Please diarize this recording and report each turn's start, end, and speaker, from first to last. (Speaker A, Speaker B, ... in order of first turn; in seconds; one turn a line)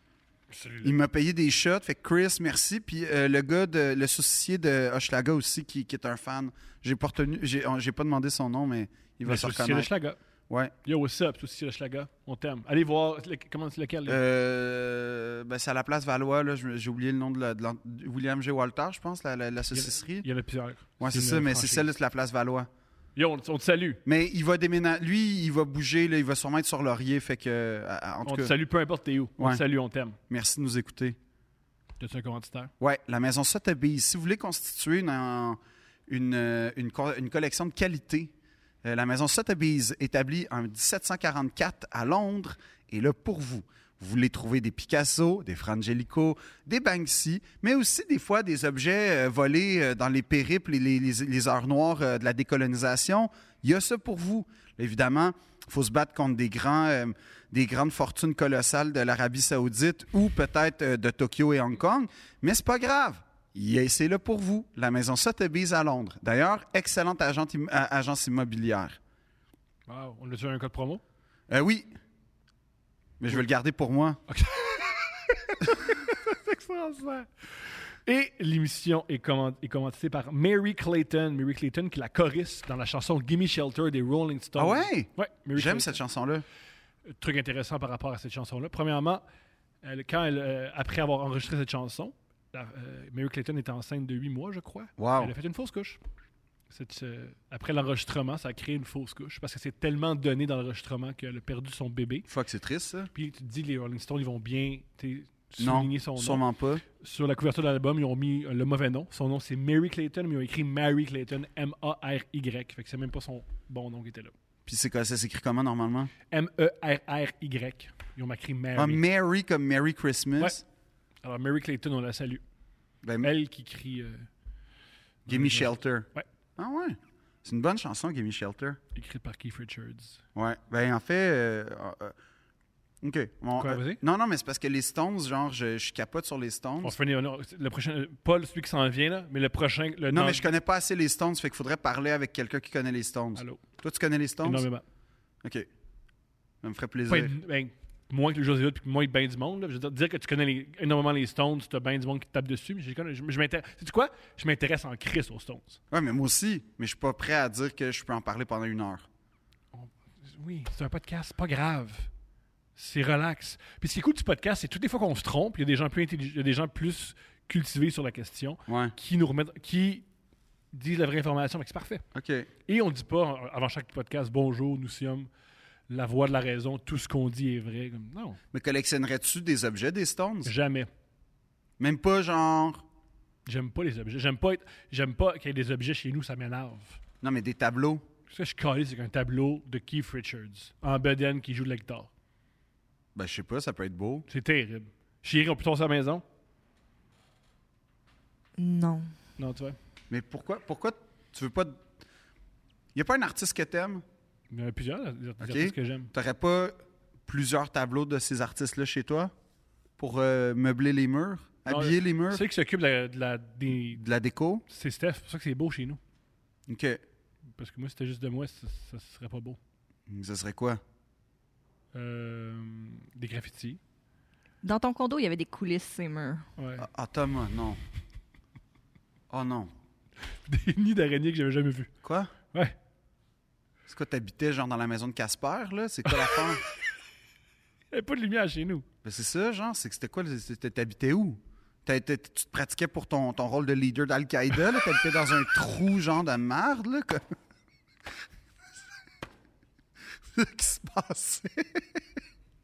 Speaker A: 0.5-0.9
Speaker B: 0.8-9.9
Speaker A: 9.2-10.2
Speaker A: 10.8-14.2
Speaker B: 14.1-20.2
Speaker A: 19.7-21.9
Speaker B: 21.0-22.7
Speaker A: 23.1-24.0
Speaker B: 24.1-28.5
Speaker A: 28.2-30.2
Speaker B: 30.3-31.2
Speaker A: 32.0-32.7
Speaker B: 32.8-38.3
Speaker B: 38.8-69.0
Speaker A: 69.9-71.0
Speaker B: 71.5-71.9
Speaker B: 73.2-74.2
Speaker A: 74.3-86.0
Speaker B: 84.5-86.4
Speaker A: 87.0-89.2
Speaker A: 89.8-96.0
Speaker B: 95.0-95.3
Speaker A: 96.7-102.3
Speaker B: 102.3-103.1
Speaker A: 103.1-106.4
Speaker B: 105.6-106.8
Speaker A: 107.0-114.3
Speaker B: 114.7-116.1
Speaker A: 116.3-119.0
Speaker B: 118.8-120.6
Speaker A: 121.2-122.4
Speaker B: 123.0-123.3
Speaker A: 123.2-124.3
Speaker A: 125.2-126.3
Speaker B: 125.3-128.8
Speaker A: 128.9-130.2
Speaker B: 130.3-132.1
Speaker B: 133.0-136.9
Speaker A: 133.6-134.0
Speaker A: 136.8-140.5
Speaker B: 140.1-144.6
Speaker A: 143.3-143.6
Speaker A: 144.4-144.8
Speaker B: 146.6-147.3
Speaker A: 147.1-155.8
Speaker B: 155.9-159.1
Speaker A: 159.7-162.1
Speaker A: 162.8-170.1
Speaker B: 168.7-168.9
Speaker A: 170.7-172.0
Speaker B: 172.1-172.5
Speaker A: 172.7-175.3
Speaker A: 175.9-178.4
Speaker B: 178.5-180.5
Speaker A: 180.4-180.9
Speaker B: 181.8-182.8
Speaker A: 183.4-187.0
Speaker B: 187.2-188.0
Speaker A: 188.3-192.1
Speaker B: 193.1-194.2
Speaker A: 194.3-196.2
Speaker C: 198.6-199.1
Speaker A: 199.4-199.8
Speaker B: 200.1-201.8
Speaker B: 202.9-204.0
Speaker A: 204.5-206.1
Speaker B: 205.4-206.8
Speaker B: 207.3-209.3
Speaker B: 210.0-212.4
Speaker A: 211.7-214.0
Speaker B: 213.9-214.6
Speaker A: 214.7-216.0
Speaker B: 216.7-217.0
Speaker A: 217.6-219.6
Speaker B: 220.1-220.8
Speaker A: 221.9-223.8
Speaker C: 224.6-226.5
Speaker A: 226.6-226.8
Speaker B: 226.8-227.8
Speaker B: 229.3-229.7
Speaker A: 230.2-231.9
Speaker B: 232.0-232.3
Speaker B: 233.9-236.6
Speaker A: 236.1-236.8
Speaker A: 237.9-238.8
Speaker B: 239.0-247.2
Speaker B: 250.3-251.8